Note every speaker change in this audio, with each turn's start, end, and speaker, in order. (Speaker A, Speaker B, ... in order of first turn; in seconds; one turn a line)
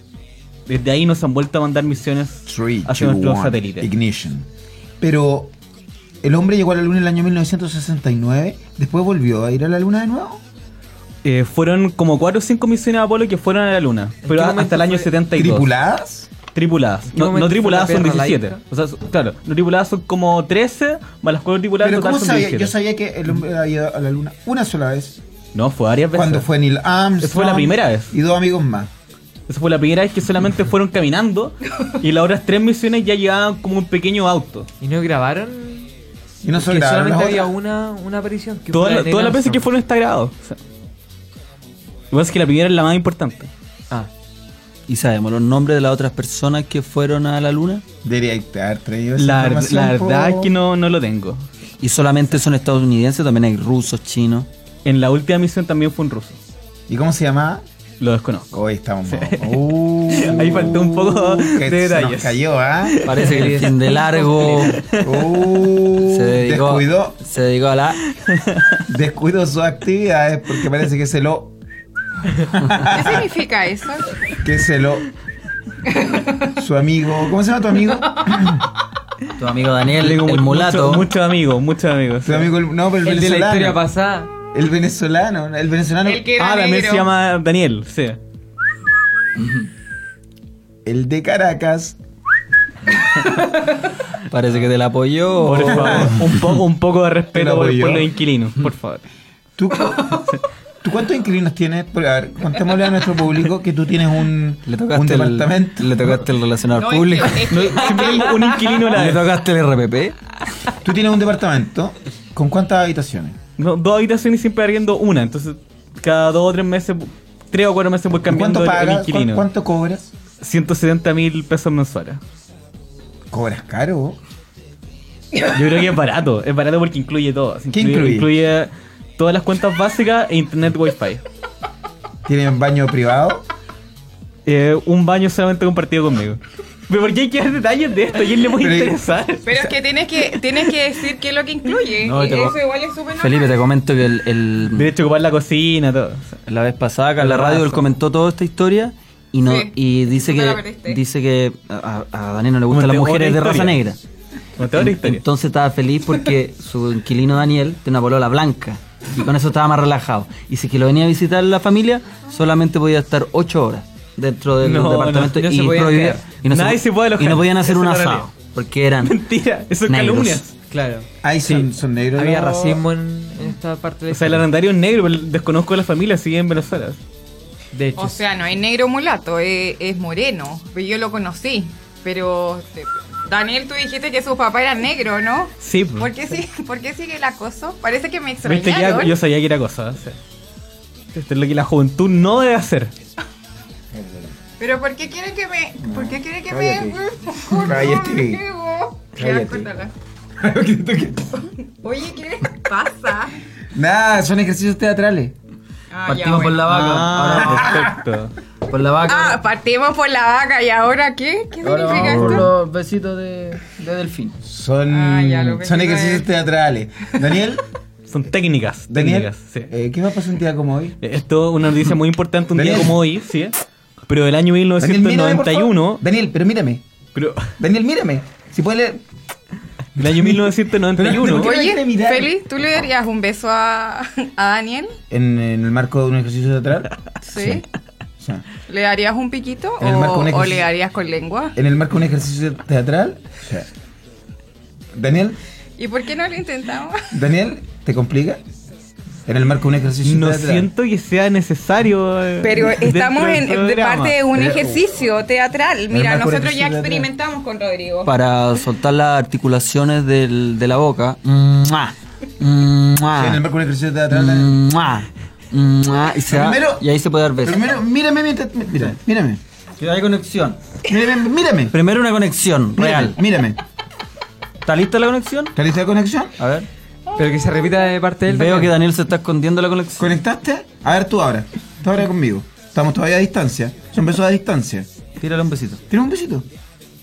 Speaker A: 0.7-3.9
Speaker B: 2.5-4.5
Speaker B: 5.0-5.5
Speaker B: 6.2-10.4
Speaker A: 11.2-15.7
Speaker C: 14.2-15.1
Speaker B: 15.3-16.3
Speaker A: 16.5-22.7
Speaker C: 17.1-18.6
Speaker B: 21.8-25.2
Speaker A: 25.5-26.5
Speaker B: 26.1-28.9
Speaker A: 27.2-28.1
Speaker A: 29.5-34.7
Speaker C: 34.8-35.9
Speaker B: 36.4-37.5
Speaker C: 36.5-39.6
Speaker A: 38.7-40.6
Speaker A: 42.1-43.5
Speaker D: 44.9-47.8
Speaker B: 48.0-50.5
Speaker A: 49.2-51.4
Speaker D: 51.8-54.5
Speaker A: 54.8-56.4
Speaker B: 56.9-57.6
Speaker A: 58.0-58.5
Speaker B: 58.5-63.0
Speaker A: 59.1-63.7
Speaker D: 63.0-64.8
Speaker C: 63.2-64.7
Speaker A: 64.4-65.0
Speaker B: 65.0-67.2
Speaker D: 66.0-68.0
Speaker B: 68.9-71.5
Speaker B: 72.5-73.2
Speaker E: 72.9-74.1
Speaker B: 74.4-75.0
Speaker E: 75.9-76.2
Speaker B: 76.5-78.6
Speaker D: 79.4-81.1
Speaker A: 80.0-82.5
Speaker B: 82.2-83.8
Speaker C: 83.0-84.3
Speaker B: 84.5-86.3
Speaker E: 86.0-87.1
Speaker A: 86.4-88.2
Speaker D: 89.4-89.7
Speaker B: 90.8-92.0
Speaker D: 94.3-96.2
Speaker A: 95.4-99.0
Speaker B: 95.7-96.2
Speaker B: 97.3-98.1
Speaker B: 99.6-106.2
Speaker D: 104.7-108.2
Speaker E: 106.8-108.7
Speaker A: 107.5-109.3
Speaker D: 108.9-110.1
Speaker B: 110.8-113.4
Speaker A: 113.6-119.4
Speaker B: 118.2-120.1
Speaker A: 120.4-122.2
Speaker B: 123.3-124.2
Speaker A: 125.5-131.2
Speaker B: 127.7-128.3
Speaker B: 132.2-133.4
Speaker A: 134.4-140.4
Speaker B: 138.6-139.0
Speaker E: 139.4-143.6
Speaker D: 142.0-142.6
Speaker D: 143.2-144.9
Speaker A: 144.7-146.4
Speaker D: 146.5-154.0
Speaker A: 147.2-147.9
Speaker E: 149.4-151.0
Speaker A: 152.7-153.8
Speaker A: 154.6-155.2
Speaker D: 154.6-169.2
Speaker A: 164.6-165.5
Speaker C: 165.3-166.2
Speaker A: 166.4-168.3
Speaker A: 169.0-170.5
Speaker D: 169.9-170.4
Speaker C: 170.7-171.0
Speaker B: 171.2-172.8
Speaker C: 172.2-174.4
Speaker A: 174.1-177.0
Speaker C: 177.7-178.2
Speaker E: 178.0-189.1
Speaker A: 185.6-186.1
Speaker A: 188.4-190.2
Speaker A: 191.1-192.9
Speaker B: 193.9-194.3
Speaker E: 194.6-199.9
Speaker B: 195.9-197.0
Speaker B: 197.5-198.4
Speaker B: 199.2-199.7
Speaker B: 200.4-201.4
Speaker E: 201.8-203.3
Speaker B: 203.7-205.3
Speaker E: 205.9-206.8
Speaker D: 206.1-207.8
Speaker A: 206.7-208.3
Speaker B: 207.4-207.9
Speaker D: 208.7-209.4
Speaker E: 209.0-212.5
Speaker D: 211.6-214.3
Speaker B: 214.4-217.6
Speaker E: 214.9-216.3
Speaker A: 218.1-219.7
Speaker B: 218.9-221.0
Speaker A: 221.0-223.5
Speaker B: 222.5-223.0
Speaker A: 224.1-226.0
Speaker B: 224.8-226.8
Speaker A: 227.1-227.5
Speaker B: 227.6-229.0
Speaker A: 229.9-231.5
Speaker B: 230.0-232.3
Speaker E: 231.3-234.9
Speaker B: 235.1-237.6
Speaker E: 237.2-237.7
Speaker E: 238.7-241.5
Speaker B: 239.8-240.7
Speaker B: 241.6-243.7
Speaker B: 244.9-245.4
Speaker E: 245.8-247.1
Speaker B: 247.1-248.4
Speaker B: 249.2-250.7
Speaker A: 250.0-254.2
Speaker E: 252.4-258.1
Speaker B: 254.3-254.9
Speaker B: 255.9-257.1
Speaker D: 258.0-263.4
Speaker B: 263.1-264.7
Speaker D: 264.1-267.6
Speaker B: 266.3-266.9
Speaker B: 267.4-269.4
Speaker D: 269.8-270.6
Speaker B: 270.9-271.8
Speaker D: 271.7-273.1
Speaker B: 272.8-273.6
Speaker D: 274.6-275.5
Speaker B: 275.6-276.4
Speaker D: 276.4-276.7
Speaker C: 277.2-278.8
Speaker D: 278.3-280.1
Speaker B: 280.0-284.9
Speaker D: 285.2-285.8
Speaker B: 285.9-286.5